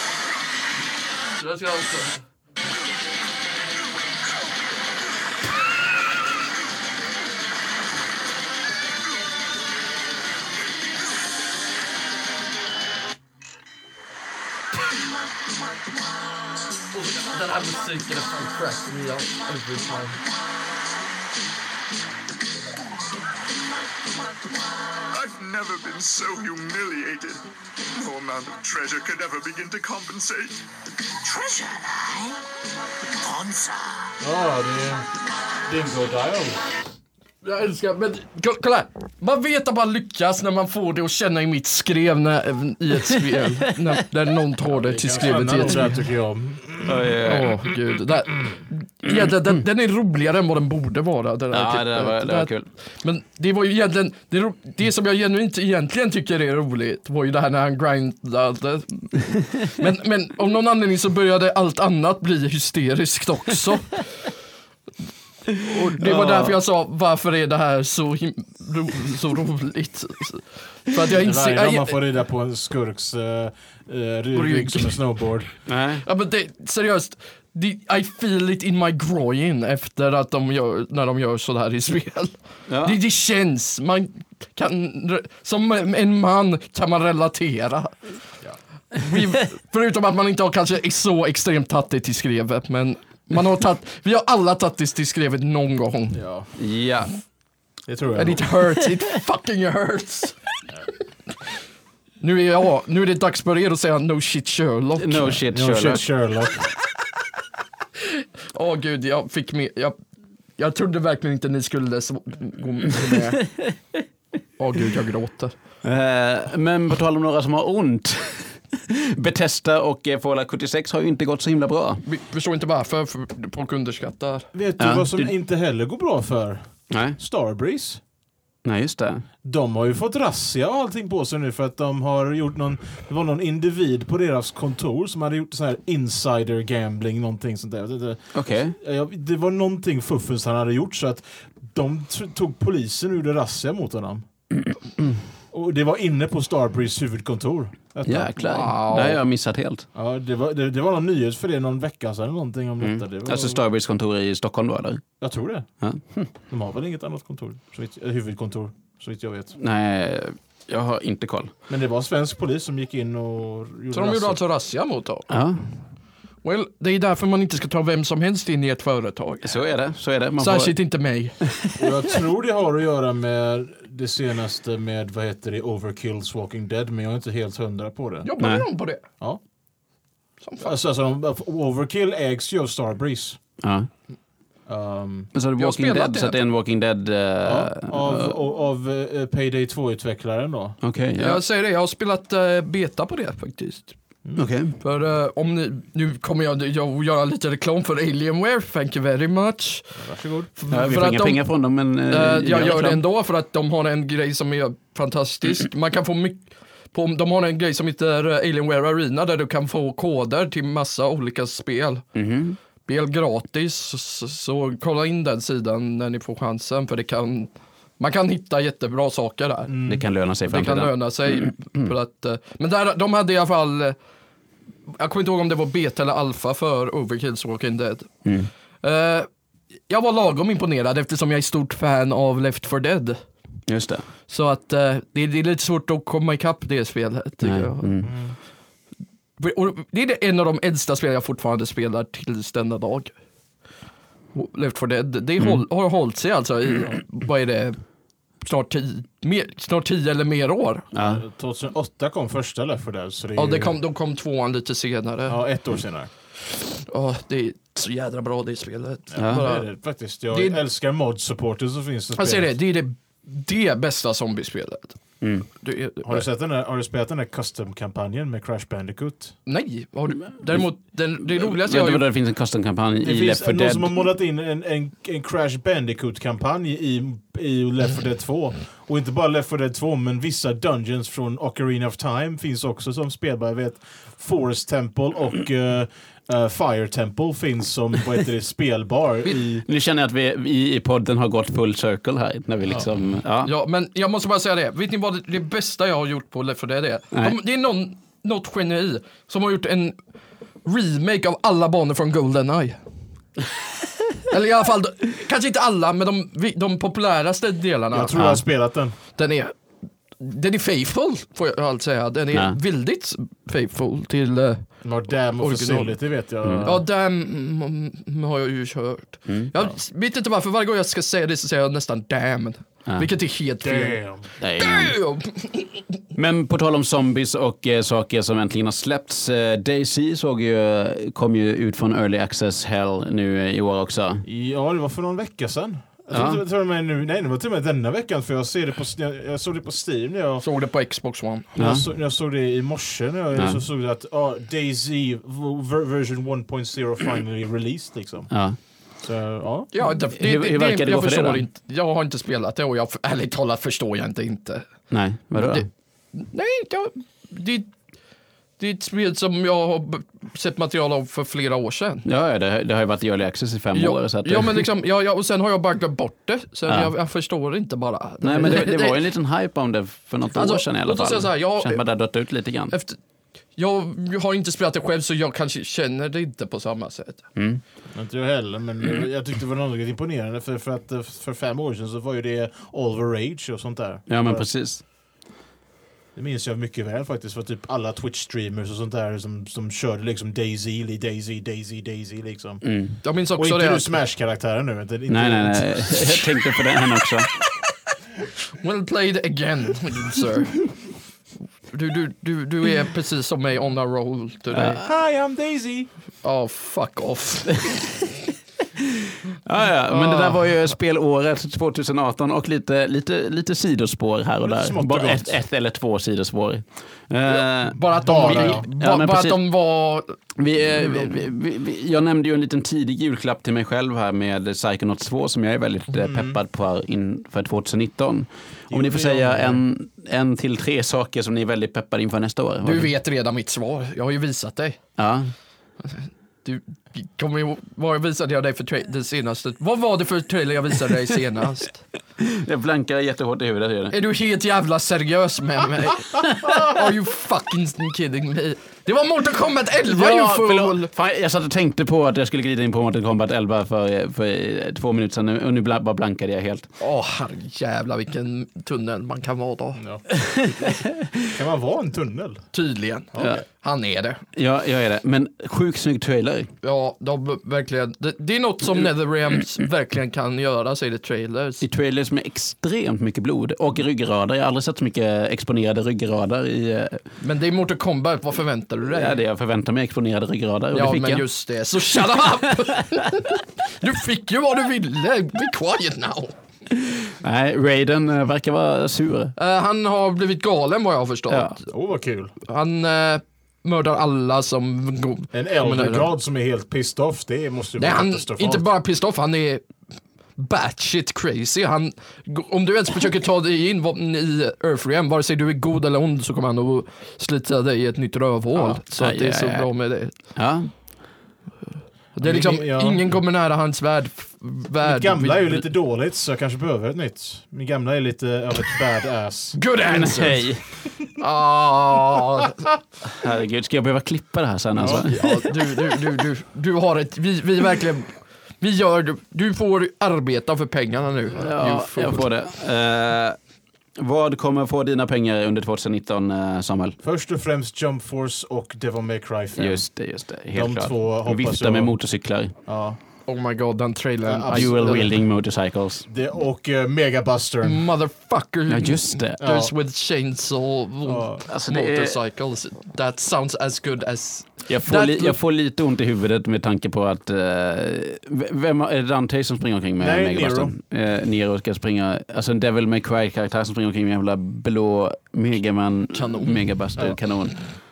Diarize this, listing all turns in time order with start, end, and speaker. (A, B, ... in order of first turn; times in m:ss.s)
0:01.3-0:02.2 A
0:16.9-0:20.2 A
0:25.1-0:30.6 B
0:31.2-0:32.4 C
0:33.2-0:34.1 C
0:34.2-0:35.0 D
0:35.6-0:36.6 D
0:37.4-0:46.0 A
0:44.7-0:47.2 D
0:46.8-0:47.6 E
0:47.2-1:04.0 A
0:51.5-0:52.7 E
1:05.6-1:12.0 A
1:06.0-1:06.6 E
1:11.2-1:15.5 D
1:14.3-1:15.0 A
1:15.7-1:16.0 E
1:16.0-1:28.0 A
1:22.7-1:23.0 E
1:29.0-1:36.2 A
1:36.1-1:36.5 D
1:36.6-1:37.1 E
1:37.9-1:38.5 D
1:38.2-1:40.4 A
1:42.2-1:45.4 A
1:45.0-1:46.0 E
1:45.5-1:46.7 D
1:48.1-1:50.0 A
1:50.6-1:53.5 A
1:54.6-1:55.5 A
1:55.8-2:02.0 E
2:02.0-2:04.5 A
2:04.5-2:08.0 D
2:04.8-2:05.3 E
2:06.9-2:07.2 E
2:08.6-2:09.2 E
2:09.4-2:24.2 D
2:18.3-2:18.8 E
2:25.5-2:28.3 D
2:28.0-2:29.9 E
2:28.4-2:29.2 A
2:29.9-2:33.6 D
2:32.8-2:35.0 E
2:35.2-2:35.7 D
2:35.8-2:36.3 E
2:36.5-2:39.6 D
2:39.6-2:41.5 E
2:41.7-2:44.4 D
2:43.9-2:45.3 A
2:45.3-2:45.6 E
2:46.4-2:49.6 A
2:49.4-2:50.7 E
2:50.4-2:51.4 A
2:51.7-2:58.3 D
2:58.2-2:59.0 A
2:58.4-2:58.6 E
3:00.4-3:00.7 A
3:00.6-3:03.4 D
3:03.6-3:03.9 E
3:04.7-3:05.3 D
3:05.3-3:08.4 E
3:05.6-3:06.4 A
3:07.4-3:10.8 D
3:10.8-3:11.4 E
3:11.2-3:14.0 A
3:14.4-3:14.8 E
3:14.8-3:20.0 A
3:19.9-3:20.5 D
3:20.6-3:21.4 A
3:20.7-3:23.0 E
3:22.1-3:32.0 A
3:32.1-3:32.6 E
3:32.8-3:39.7 A
3:39.7-3:40.0 D
3:39.9-3:41.9 E
3:40.5-3:44.0 A
3:45.0-3:48.1 A
3:48.8-3:49.3 A
3:49.9-3:53.2 A
3:53.7-3:54.0 E
3:54.3-3:58.1 A
3:57.4-3:58.1 E
3:58.0-3:58.3 D
3:59.4-4:03.1 A
4:04.3-4:07.8 A
4:08.4-4:10.9 A
4:10.9-4:11.2 E
4:11.0-4:13.8 D
4:13.4-4:15.4 A
4:15.3-4:16.1 D
4:16.8-4:19.7 A
4:19.1-4:22.5 D
4:19.2-4:19.4 E
4:20.3-4:20.6 A
4:22.2-4:25.0 A
4:25.2-4:25.5 E
4:25.6-4:26.2 A
4:26.0-4:29.4 D
4:29.4-4:32.0 A
4:31.3-4:34.0 E
4:33.0-4:49.6 D
4:49.6-4:53.5 E
4:53.4-5:00.0 A
5:00.6-5:02.8 A
5:04.3-5:08.3 A
5:07.9-5:09.0 D
5:09.2-5:09.6 A
5:10.2-5:14.9 A
5:14.8-5:16.8 D
5:15.4-5:16.0 A
5:16.4-5:16.7 E
5:16.6-5:24.0 A
5:19.3-5:19.5 E
5:23.6-5:24.3 D
5:24.4-5:25.0 E
5:24.6-5:25.8 A
5:26.1-5:34.2 E
5:34.2-5:40.4 D
5:36.1-5:36.4 E
5:40.4-5:41.5 A
5:41.5-5:48.3 D
5:41.6-5:41.8 E
5:48.3-5:48.6 E
5:49.0-5:49.7 D
5:49.7-5:54.7 A
5:50.1-5:51.4 E
5:54.9-5:55.6 E
5:55.3-5:57.7 A
5:58.6-6:02.1 A
6:02.0-6:04.6 E
6:03.7-6:09.0 A
6:06.7-6:06.9 E
6:08.2-6:12.7 E
6:10.3-6:11.8 A
6:12.7-6:13.0 A
6:13.6-6:17.2 A
6:17.3-6:17.6 E
6:17.9-6:24.5 D
6:24.1-6:24.8 E
6:26.2-6:32.6 D
6:32.6-6:33.0 E
6:33.0-6:33.9 A
6:33.4-6:36.1 D
6:35.1-6:37.3 E
6:38.6-6:40.7 A
6:41.7-6:44.8 A
6:44.5-6:44.8 E
6:44.8-6:45.9 D
6:46.2-6:47.8 A
6:49.4-6:59.4 E
6:49.9-6:50.5 A
6:54.4-6:55.4 D
6:57.3-7:00.2 A
6:58.0-6:58.6 D
7:00.4-7:12.9 E
7:00.8-7:01.1 A
7:05.9-7:06.4 D
7:08.7-7:09.6 D
7:12.6-7:14.8 A
7:15.0-7:15.3 E
7:15.9-7:21.8 A
7:22.2-7:24.0 E
7:23.9-7:30.9 A
7:29.9-7:36.7 E
7:36.8-7:39.8 A
7:39.8-7:40.2 D
7:40.2-7:41.3 E
7:41.2-7:42.4 D
7:42.5-7:44.2 A
7:43.1-7:43.4 D
7:44.3-7:46.5 E
7:46.6-7:51.6 A
7:51.6-7:57.0 E
7:57.2-7:59.2 A
7:58.8-8:01.2 E
8:00.7-8:06.3 A
8:06.7-8:09.3 E
8:09.4-8:11.7 A
8:11.3-8:11.5 E
8:11.7-8:12.3 D
8:12.4-8:16.1 A
8:15.3-8:18.7 D
8:17.8-8:19.6 A
8:20.4-8:30.1 A
8:28.5-8:29.7 E
8:30.3-8:30.7 E
8:32.2-8:35.7 A
8:32.2-8:33.0 D
8:34.8-8:39.6 D
8:39.5-8:40.5 A
8:39.8-8:40.6 E
8:41.2-8:42.7 A
8:43.0-8:45.7 E
8:44.8-8:52.3 A
8:51.4-8:53.4 E
8:54.0-8:57.0 E
8:57.0-8:59.9 D
8:59.6-9:02.5 E
9:00.5-9:01.9 D
9:02.6-9:03.0 D
9:03.3-9:05.1 A
9:04.2-9:05.1 D
9:04.5-9:06.0 E
9:06.1-9:07.9 D
9:07.6-9:15.4 A
9:08.7-9:09.4 E
9:09.4-9:09.7 D
9:11.0-9:11.4 D
9:11.5-9:12.2 E
9:14.7-9:27.6 E
9:20.0-9:20.7 D
9:26.1-9:26.6 A